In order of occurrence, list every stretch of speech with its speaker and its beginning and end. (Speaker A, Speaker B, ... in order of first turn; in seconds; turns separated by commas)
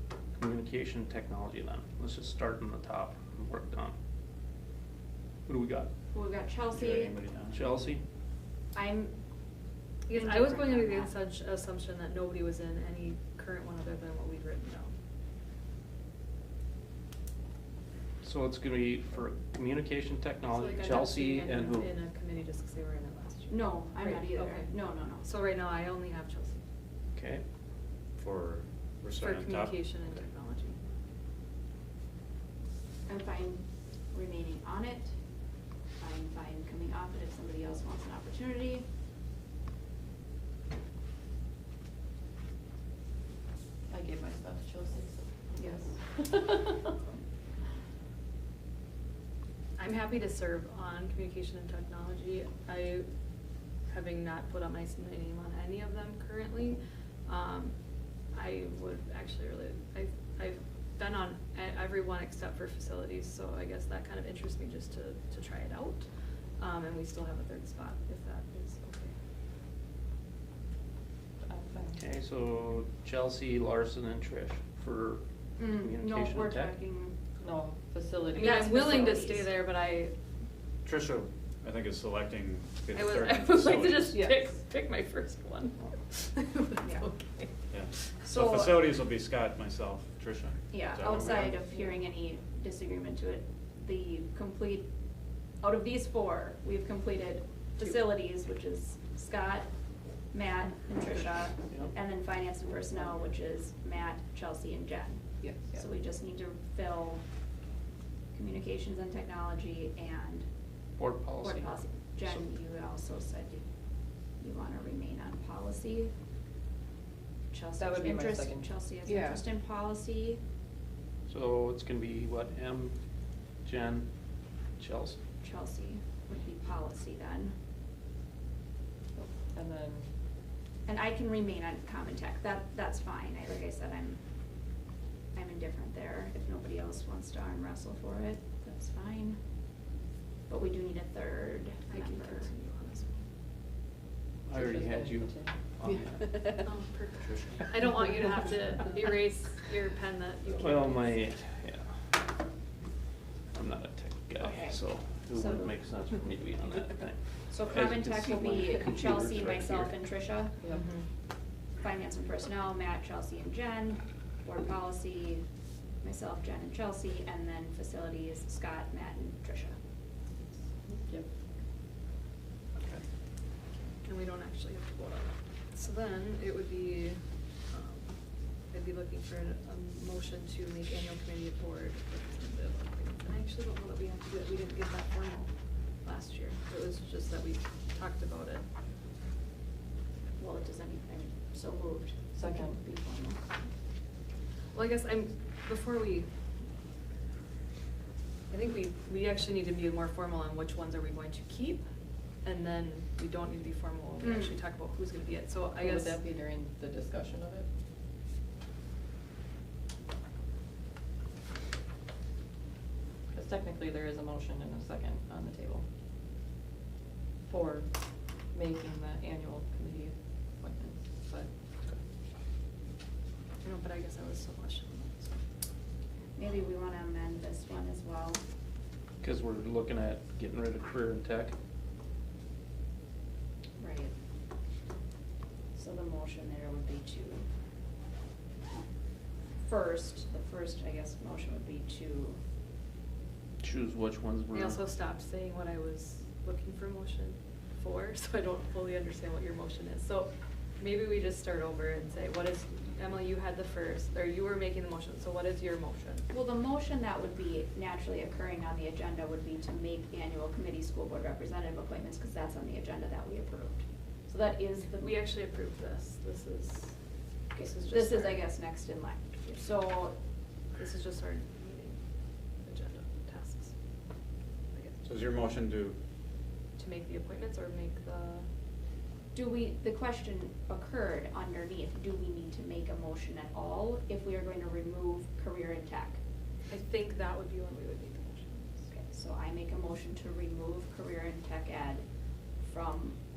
Speaker A: 0.3-3.9, Speaker A: 5.5-5.9, Speaker B: 6.1-7.2, Speaker C: 6.7-7.7, Speaker A: 7.5-8.0, Speaker B: 8.7-9.1, Speaker D: 10.1-14.9, Speaker B: 10.1-11.2, Speaker A: 18.2-21.9, Speaker D: 20.5-26.6, Speaker B: 23.5-25.3, Speaker A: 27.1-27.4, Speaker C: 28.1-30.1, Speaker D: 29.2-30.8, Speaker B: 33.1-35.1, Speaker B: 36.0-38.9, Speaker E: 43.9-46.9, Speaker B: 45.5-45.8, Speaker D: 49.8-53.1, Speaker D: 53.9-57.8, Speaker D: 58.3-66.1, Speaker D: 66.6-69.1, Speaker E: 71.4-72.0, Speaker A: 72.0-76.8, Speaker B: 75.6-77.2, Speaker E: 77.4-78.6, Speaker B: 78.3-79.5, Speaker D: 78.3-80.1, Speaker C: 80.8-84.3, Speaker D: 82.9-87.5, Speaker B: 86.8-87.1, Speaker C: 87.7-91.6, Speaker D: 88.1-88.3, Speaker B: 88.3-88.8, Speaker B: 90.7-94.9, Speaker B: 95.6-99.7, Speaker B: 100.3-107.2, Speaker E: 105.4-105.8, Speaker B: 108.3-110.5, Speaker A: 111.0-111.7, Speaker B: 111.4-113.6, Speaker B: 114.4-116.1, Speaker B: 117.5-120.4, Speaker E: 117.8-119.4, Speaker A: 121.3-122.9, Speaker A: 123.6-124.1, Speaker A: 124.8-125.2, Speaker B: 125.4-127.6, Speaker E: 129.2-130.1, Speaker B: 130.8-134.2, Speaker B: 135.3-139.4, Speaker B: 140.5-142.5, Speaker D: 141.9-143.2, Speaker A: 144.4-146.5, Speaker E: 144.6-145.5, Speaker D: 146.6-151.1, Speaker C: 147.2-147.6, Speaker A: 150.6-152.1, Speaker A: 153.5-159.9, Speaker B: 154.4-154.8, Speaker B: 155.3-155.7, Speaker B: 157.5-160.6, Speaker E: 160.6-160.9, Speaker D: 160.7-161.0, Speaker B: 161.8-165.4, Speaker B: 166.0-169.8, Speaker E: 170.9-171.3, Speaker D: 173.7-178.1, Speaker D: 178.7-185.5, Speaker D: 186.0-188.7, Speaker B: 190.4-193.4, Speaker E: 192.3-192.8, Speaker D: 194.7-196.3, Speaker D: 198.5-201.8, Speaker D: 202.4-206.2, Speaker B: 204.2-204.5, Speaker E: 205.8-207.7, Speaker E: 213.3-215.8, Speaker E: 217.4-221.5, Speaker D: 223.6-225.4, Speaker B: 226.3-228.4, Speaker A: 229.2-231.5, Speaker B: 233.8-234.1, Speaker B: 235.7-237.5, Speaker B: 239.6-242.4, Speaker A: 243.6-244.8, Speaker D: 244.5-256.2, Speaker B: 256.3-265.2, Speaker D: 265.0-266.9, Speaker B: 267.5-270.1, Speaker D: 267.6-268.4, Speaker D: 270.8-272.0, Speaker D: 272.6-273.7, Speaker D: 274.7-275.1, Speaker C: 275.0-276.0, Speaker D: 276.8-278.5, Speaker B: 279.3-286.2, Speaker D: 286.7-288.8, Speaker B: 288.9-292.0, Speaker B: 292.6-293.2